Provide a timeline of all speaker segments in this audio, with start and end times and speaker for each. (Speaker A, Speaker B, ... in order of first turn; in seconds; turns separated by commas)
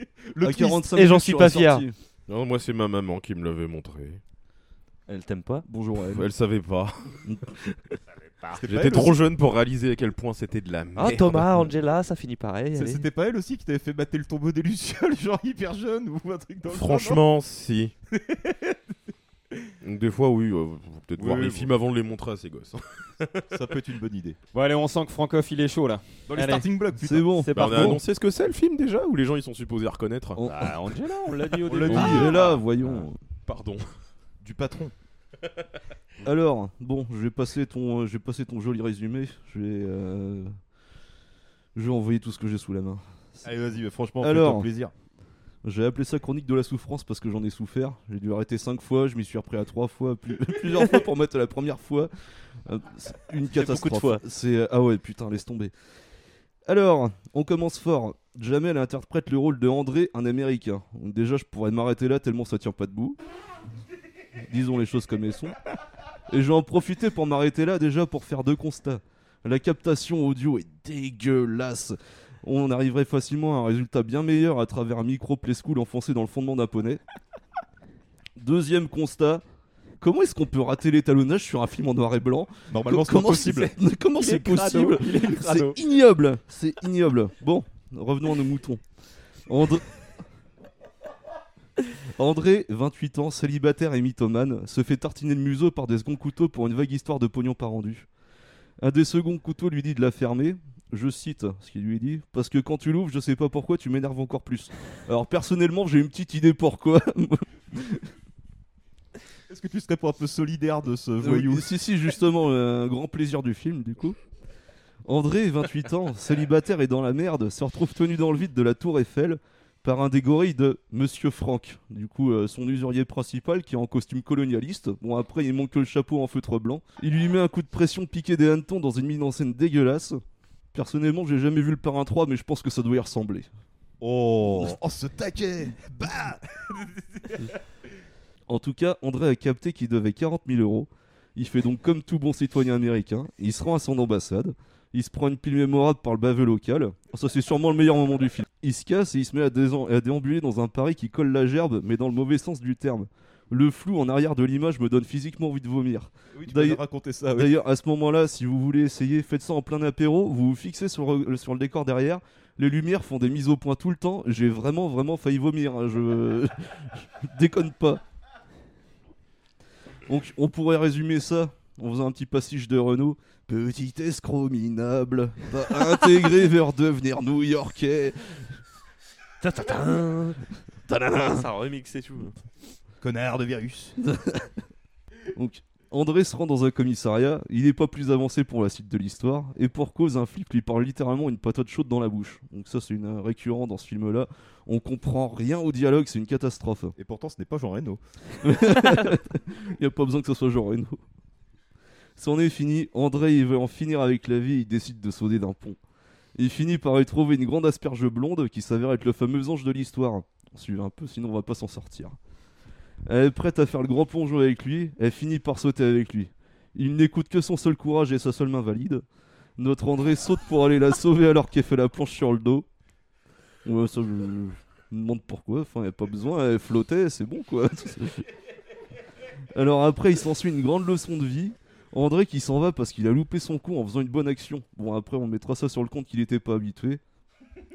Speaker A: 0.3-0.9, Speaker B: 0.4-1.9, Speaker C: 0.9-1.9, Speaker D: 2.3-4.2, Speaker C: 5.1-5.7, Speaker B: 5.7-6.3, Speaker D: 6.0-7.2, Speaker E: 8.1-8.6, Speaker A: 8.5-9.2, Speaker D: 8.6-11.7, Speaker C: 10.9-13.1, Speaker A: 12.7-17.2, Speaker D: 16.7-17.9, Speaker A: 18.1-18.8, Speaker D: 19.8-23.5, Speaker A: 21.2-21.7, Speaker A: 23.5-24.4, Speaker E: 24.5-26.7, Speaker A: 26.3-27.3, Speaker B: 27.0-28.0, Speaker E: 27.4-28.0, Speaker D: 27.5-30.4, Speaker E: 30.4-33.0, Speaker A: 31.7-32.4, Speaker D: 31.7-32.6, Speaker B: 31.9-33.2, Speaker D: 33.5-33.9, Speaker A: 34.4-34.9, Speaker B: 36.2-40.5, Speaker B: 41.7-43.4, Speaker A: 43.4-44.9, Speaker B: 44.2-44.7, Speaker B: 45.6-52.1, Speaker B: 52.6-55.7, Speaker C: 53.5-54.2, Speaker B: 56.6-63.2, Speaker B: 64.5-65.5, Speaker B: 66.3-77.0, Speaker B: 78.4-79.4, Speaker B: 80.0-88.8, Speaker A: 82.7-83.7, Speaker A: 84.4-85.7, Speaker E: 84.5-84.9, Speaker B: 89.5-89.9, Speaker B: 92.2-98.1, Speaker B: 98.8-108.0, Speaker A: 109.5-111.7, Speaker B: 111.2-114.2, Speaker B: 115.0-130.2, Speaker B: 130.7-133.5, Speaker A: 134.0-137.3, Speaker B: 138.5-156.8, Speaker A: 156.3-157.5, Speaker B: 157.3-168.0, Speaker B: 170.1-178.4, Speaker C: 179.4-180.4, Speaker B: 180.9-181.5, Speaker C: 181.0-182.3, Speaker A: 183.0-183.9, Speaker B: 184.0-184.5, Speaker B: 185.3-196.9, Speaker A: 197.0-198.0, Speaker B: 198.4-201.0, Speaker B: 202.2-205.8, Speaker B: 206.3-212.2, Speaker B: 213.1-219.0, Speaker B: 219.6-222.7, Speaker B: 223.6-228.2, Speaker B: 229.5-237.0